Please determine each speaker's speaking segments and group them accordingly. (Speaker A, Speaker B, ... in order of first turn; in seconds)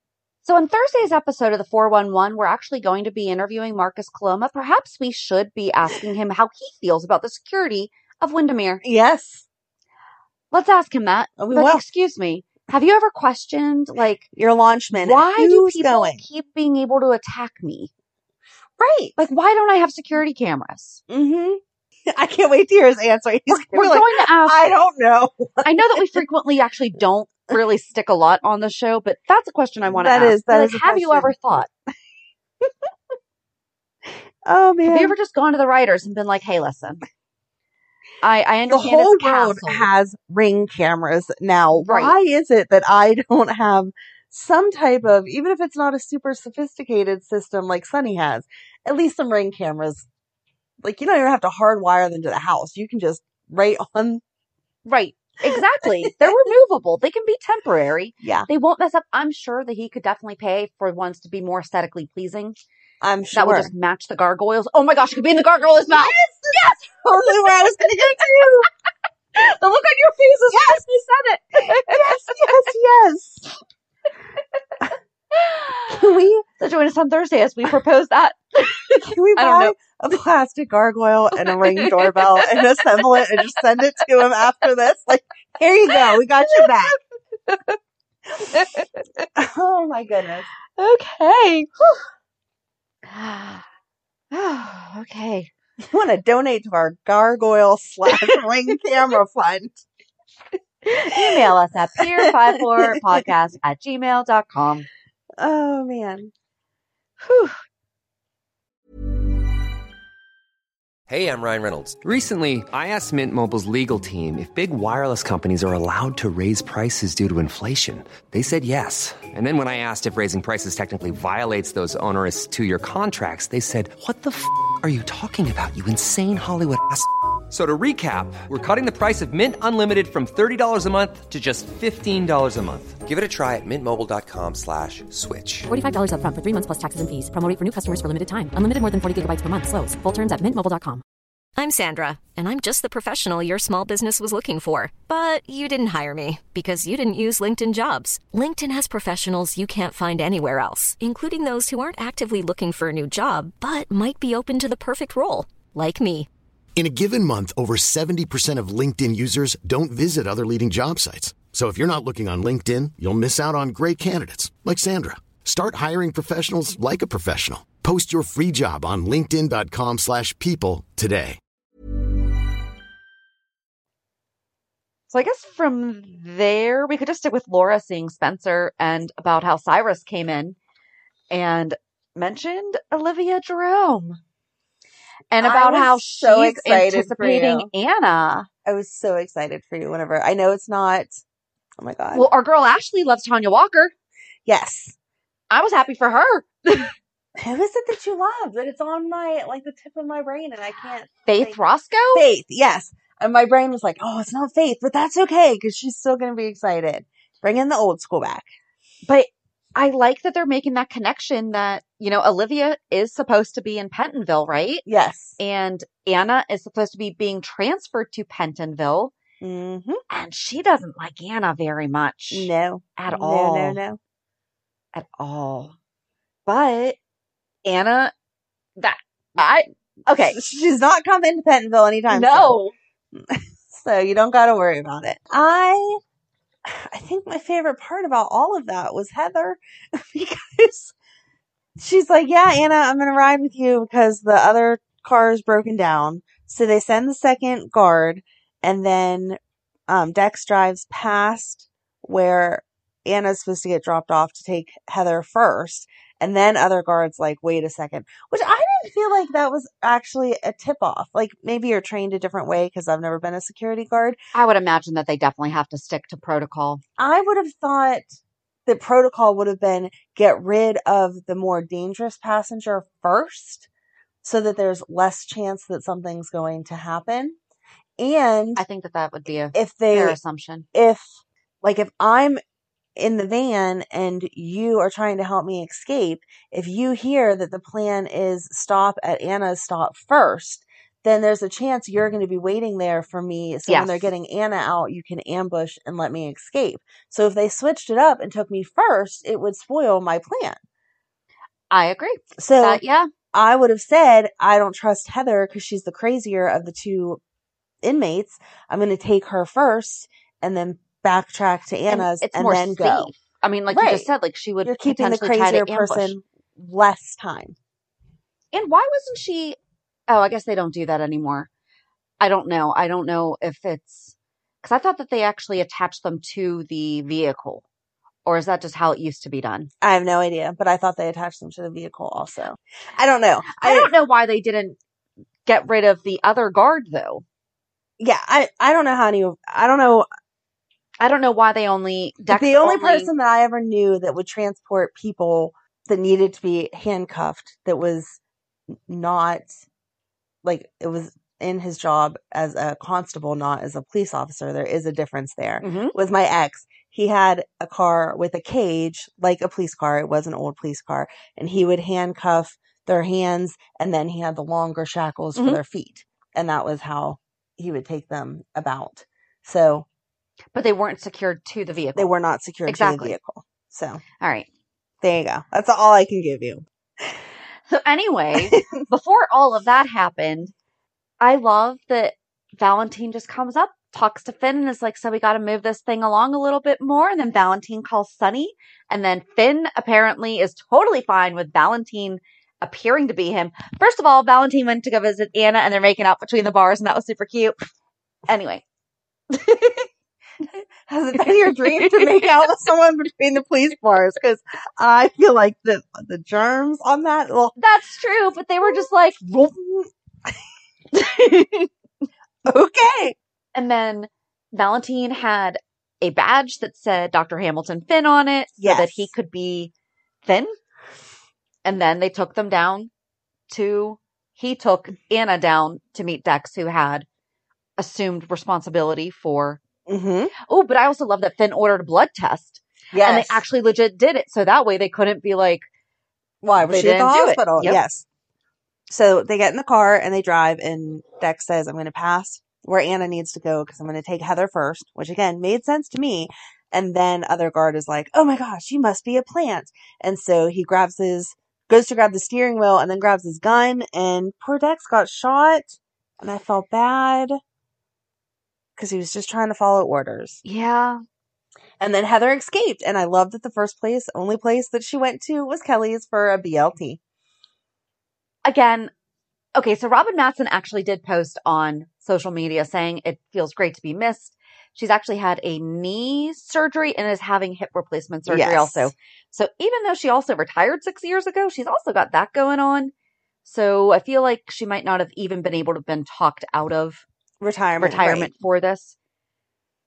Speaker A: 0.4-8.8, 10.5-14.2, 14.9-17.9, 19.2-21.0, 23.5-24.6, 25.6-31.7, 34.9-37.0, 38.2-39.9, 41.7-42.1, 54.9-62.6, 63.3-66.8, 69.3-72.5, 75.3-76.0, 76.6-79.7, 81.4-82.6, 87.5-87.8, 88.5-89.2, 90.8-92.0, 93.0-93.6, 94.3-95.5, 100.9-104.9, 107.2-107.5, 175.1-180.6, 181.3-184.2, 185.3-188.5, 192.1-193.9, 195.5-196.9, 201.2-202.2, 209.0-214.8, 215.4-219.1, 220.1-223.8, 224.9-225.7, 226.4-227.0, 227.6-228.1, 228.8-230.4, 232.1-232.7, 264.3-266.8, 278.6-280.6, 293.7-294.1, 301.7-303.1, 311.9-316.1, 318.5-319.6, 320.1-321.5, 322.2-327.6, 328.2-329.7, 333.6-334.8, 335.4-337.2, 341.0-343.1, 355.6-355.9, 365.4-365.6, 370.5-372.1, 372.6-373.2, 374.2-374.5, 377.7-380.5, 381.2-397.5, 398.3-398.6, 399.3-399.9, 401.2-402.3, 407.6-409.5, 411.0-411.7, 413.5-419.7, 420.2-420.5, 421.6-422.9, 423.5-427.1, 427.8-429.6, 430.5-435.6, 436.6-437.8, 460.4-461.0, 468.4-468.9, 469.5-482.9, 483.4-487.0, 487.8-488.9
Speaker B: 8.8-9.5, 11.4-11.8, 14.3-16.2, 18.8-19.2, 21.1-26.2, 29.9-31.3, 34.4-35.1, 38.7-50.0, 50.8-54.2, 55.9-56.1, 58.2-58.5, 63.0-63.7, 65.9-68.7, 70.5-70.8, 71.6-73.5, 75.9-76.4, 78.9-87.0, 89.3-90.5, 95.8-99.8, 101.1-101.5, 102.0-103.2, 105.4-106.3, 185.4-187.7, 188.6-191.2, 191.8-192.3, 194.4-194.9, 197.4-201.6, 202.1-208.5, 214.9-215.4, 219.4-220.0, 222.3-224.0, 230.2-232.6, 233.1-236.0, 236.6-240.9, 241.8-264.2, 267.0-273.7, 274.2-277.4, 278.0-278.6, 279.5-280.2, 280.7-282.4, 282.9-300.6, 302.4-302.8, 303.3-307.2, 307.8-313.1, 313.7-314.1, 314.6-317.6, 329.8-333.9, 338.0-340.1, 342.3-348.2, 348.9-349.6, 350.4-369.9, 371.9-374.0, 375.0-376.6, 378.4-378.7, 400.9-407.6, 409.5-409.9, 412.4-413.1, 418.6-419.1, 429.9-430.3, 432.9-433.4, 436.4-438.0, 438.9-457.4, 458.8-460.4, 461.8-467.0, 478.3-478.9, 487.4-488.3
Speaker C: 111.1-135.7
Speaker D: 135.7-141.0
Speaker E: 141.6-156.3
Speaker F: 156.8-171.4